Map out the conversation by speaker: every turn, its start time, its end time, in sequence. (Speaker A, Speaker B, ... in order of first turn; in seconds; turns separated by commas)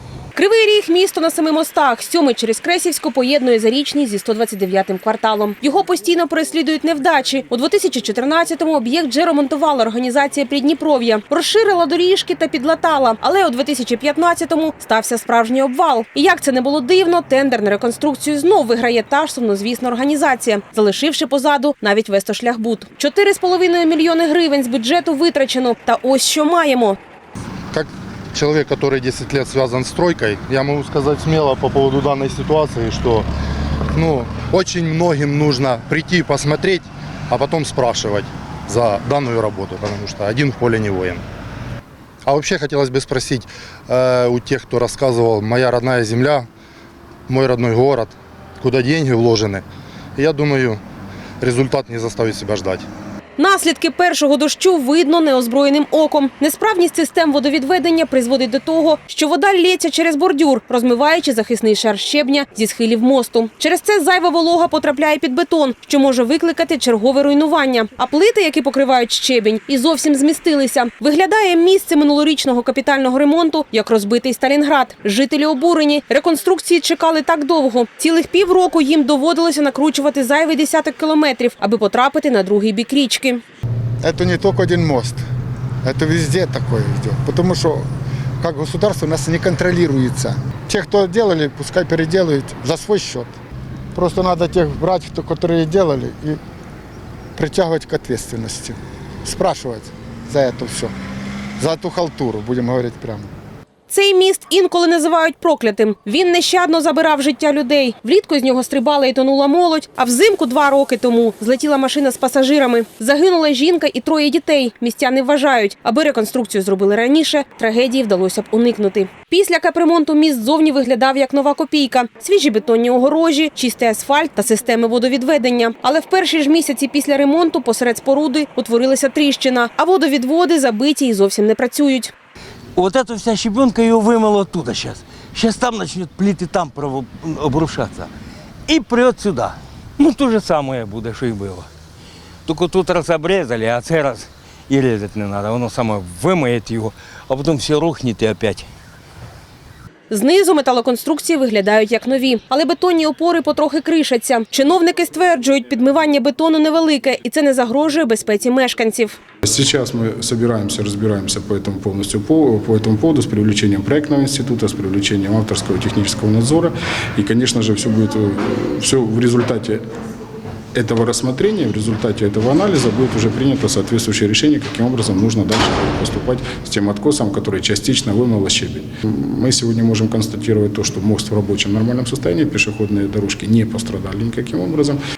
Speaker A: 0.3-27.0, Speaker B: 27.7-33.3, Speaker B: 33.9-41.2, Speaker B: 42.2-46.5, Speaker B: 47.3-49.6, Speaker B: 50.2-50.8, Speaker B: 51.4-52.9, Speaker A: 53.4-83.4, Speaker C: 84.0-85.2, Speaker C: 85.8-87.8, Speaker C: 88.4-93.3, Speaker C: 93.9-96.4, Speaker C: 97.3-100.9, Speaker C: 101.6-103.3, Speaker A: 103.9-132.1, Speaker D: 132.7-138.1, Speaker D: 138.7-141.7, Speaker D: 142.4-148.7, Speaker A: 150.1-159.2, Speaker E: 159.4-169.8, Speaker E: 170.7-185.0